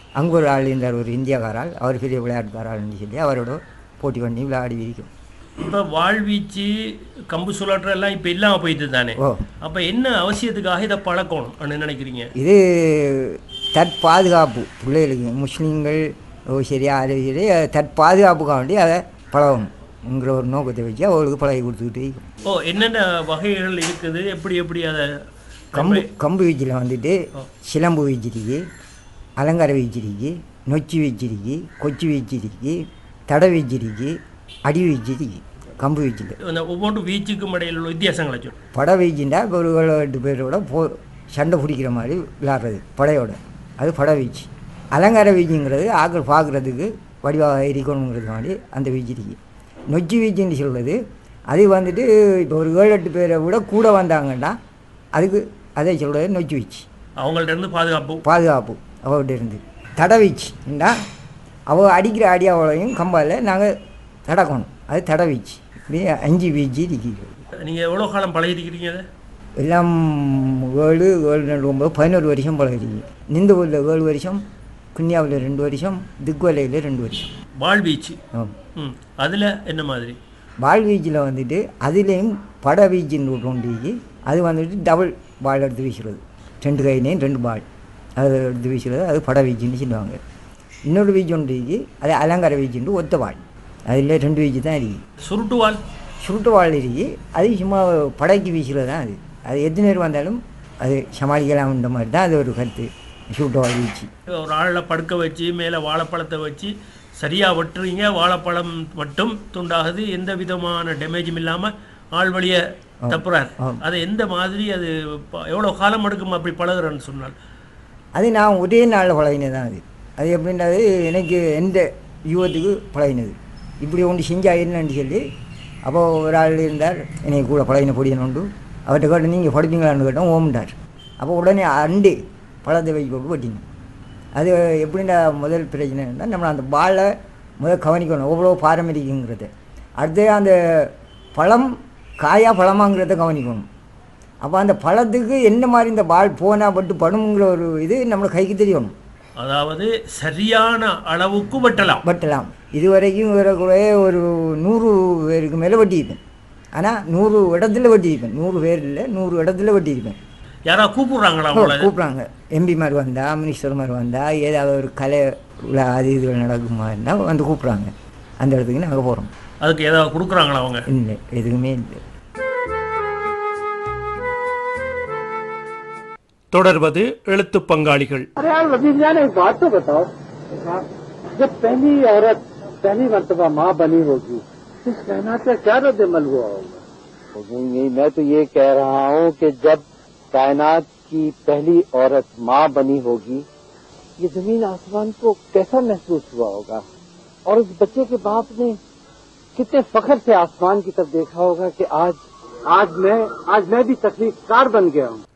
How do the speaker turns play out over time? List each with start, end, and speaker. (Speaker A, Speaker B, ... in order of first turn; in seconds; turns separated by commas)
Speaker A: 0.2-5.1, Speaker B: 5.6-6.7, Speaker B: 7.3-12.3, Speaker A: 9.2-9.5, Speaker A: 12.4-22.3, Speaker B: 22.5-25.1, Speaker B: 25.8-26.1, Speaker A: 25.8-28.6, Speaker A: 29.4-36.4, Speaker B: 36.5-38.5, Speaker A: 38.7-49.4, Speaker A: 49.9-51.0, Speaker A: 51.5-54.6, Speaker A: 55.1-56.9, Speaker B: 57.2-58.2, Speaker A: 58.2-61.0, Speaker A: 61.7-63.7, Speaker A: 64.3-67.4, Speaker B: 67.6-69.0, Speaker A: 69.6-74.4, Speaker A: 75.0-77.3, Speaker B: 77.6-78.2, Speaker B: 78.8-80.2, Speaker A: 80.6-87.7, Speaker A: 88.2-90.2, Speaker A: 90.9-95.0, Speaker B: 95.3-95.8, Speaker A: 96.2-104.1, Speaker B: 104.3-117.3, Speaker A: 113.0-113.8, Speaker A: 118.2-125.2, Speaker A: 125.9-133.7, Speaker A: 134.4-139.5, Speaker A: 140.0-141.7, Speaker A: 142.2-143.7, Speaker A: 144.4-148.9, Speaker B: 149.4-152.0, Speaker A: 152.0-156.2, Speaker A: 156.8-160.2, Speaker B: 160.7-161.9, Speaker A: 161.5-169.3, Speaker B: 169.6-170.8, Speaker A: 170.9-172.0, Speaker B: 176.5-178.3, Speaker C: 178.4-180.8, Speaker C: 181.4-186.8, Speaker C: 187.3-193.5, Speaker C: 194.2-196.8, Speaker C: 197.5-198.8, Speaker C: 199.6-205.2